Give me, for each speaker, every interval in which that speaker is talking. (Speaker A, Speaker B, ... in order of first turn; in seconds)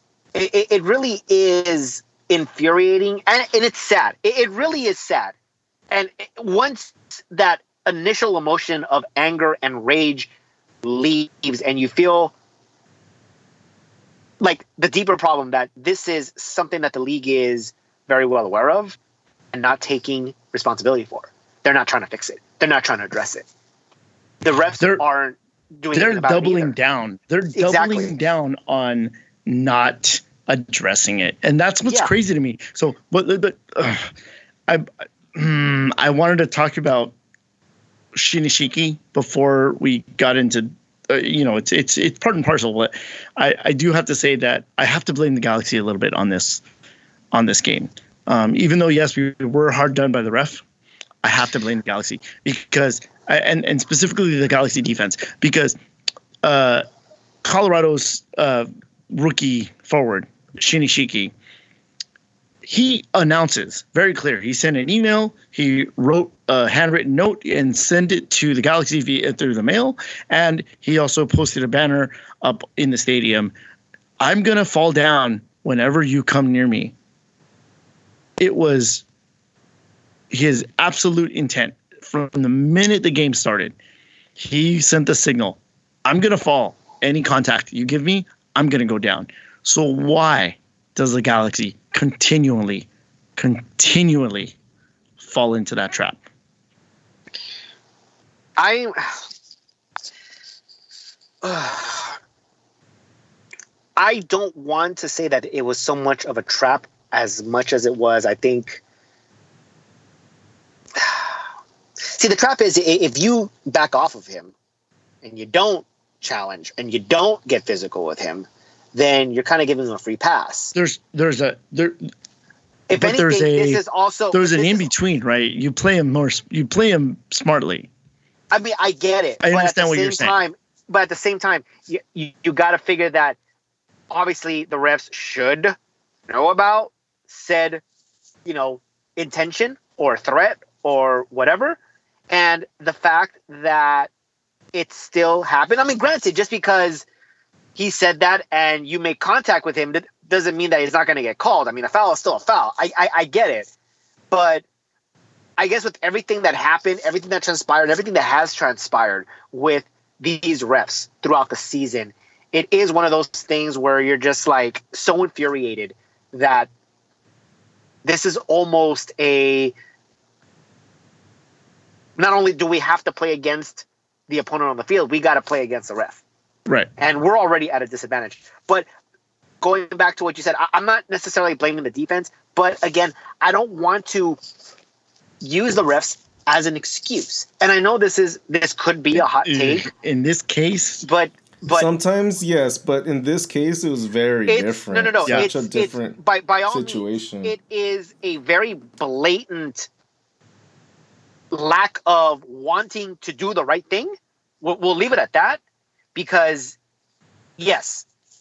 Speaker A: 0.3-5.3, 5.9-10.3, 10.8-12.3, 14.4-19.0, 19.5-23.4, 24.4-26.7, 27.5-28.1, 31.8-32.1, 98.6-99.1, 101.4-102.2, 104.0-108.8, 111.0-111.2, 112.1-114.5, 115.2-120.7, 122.9-124.9, 128.5-133.4, 134.1-135.7, 136.3-137.8, 138.4-141.8, 142.3-144.1, 144.7-147.1, 147.8-153.7, 154.3-154.6, 155.6-166.7, 168.0-169.7, 172.2-176.2, 177.0-178.8, 179.6-184.4, 185.4-189.9, 191.0-191.9, 194.5-199.9, 201.5-205.6, 206.1-206.8, 207.6-208.1
Speaker B: 25.9-34.1, 34.7-37.1, 38.1-46.6, 47.3-50.6, 51.2-55.7, 56.4-56.8, 57.4-61.3, 62.6-73.5, 74.2-76.9, 78.4-79.0, 80.3-83.7, 84.4-92.8, 93.4-94.5, 95.2-96.2, 120.7-122.0, 123.0-127.9, 129.4-130.4, 189.1-191.0
Speaker C: 191.7-197.5